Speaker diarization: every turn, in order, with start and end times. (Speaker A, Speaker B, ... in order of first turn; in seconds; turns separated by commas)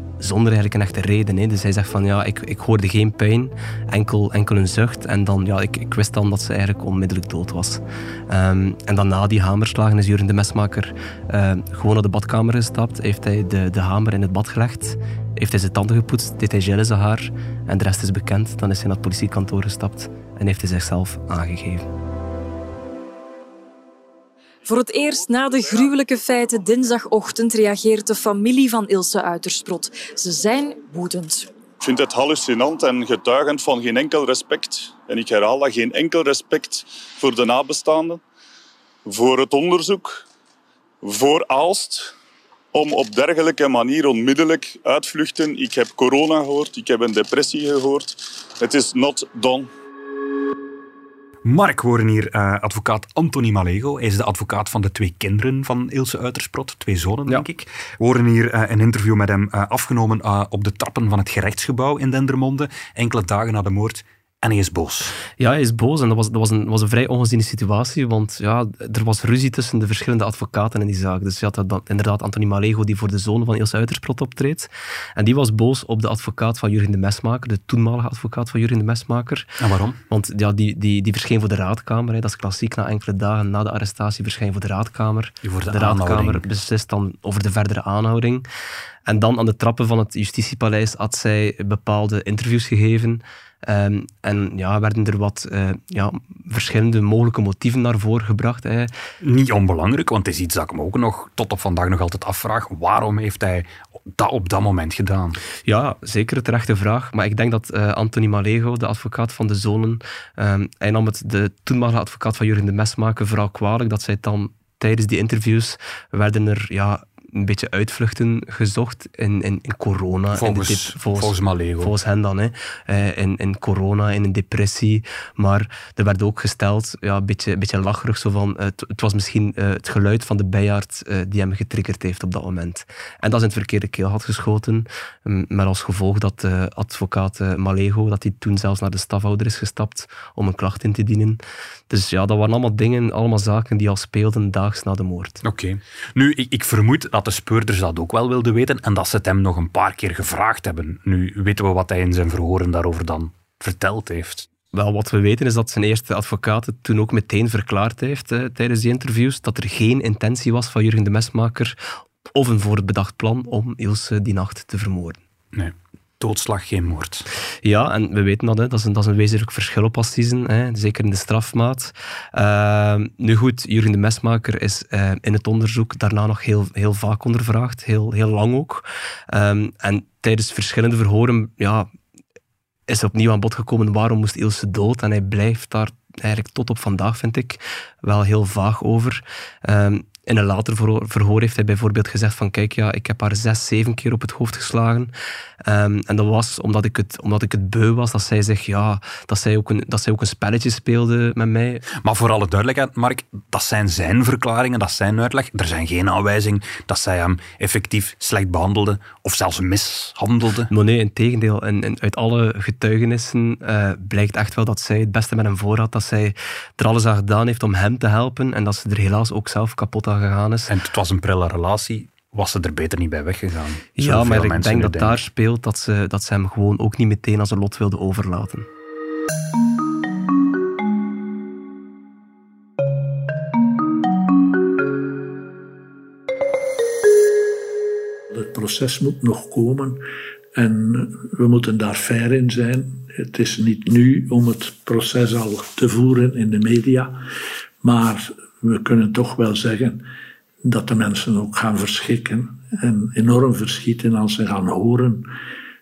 Speaker A: 0.2-21.9, Speaker B: 24.6-31.5, Speaker C: 31.8-38.2, Speaker C: 39.0-40.2, Speaker C: 41.0-42.1, Speaker C: 42.7-49.7, Speaker D: 51.4-65.1, Speaker A: 65.4-79.5, Speaker D: 79.6-80.0, Speaker A: 80.1-88.5, Speaker D: 85.4-86.5, Speaker A: 89.1-98.9, Speaker D: 99.2-105.4, Speaker A: 105.7-145.4, Speaker D: 120.3-121.9, Speaker D: 145.4-154.5, Speaker A: 154.7-161.8, Speaker A: 162.3-165.2, Speaker D: 165.5-167.3, Speaker A: 167.6-181.9, Speaker A: 182.9-195.1, Speaker A: 195.6-201.8, Speaker D: 201.9-210.7, Speaker A: 210.7-220.7, Speaker D: 220.7-225.2, Speaker A: 223.9-228.7, Speaker E: 238.3-240.0, Speaker E: 240.6-247.2, Speaker E: 247.8-250.0, Speaker E: 250.6-255.3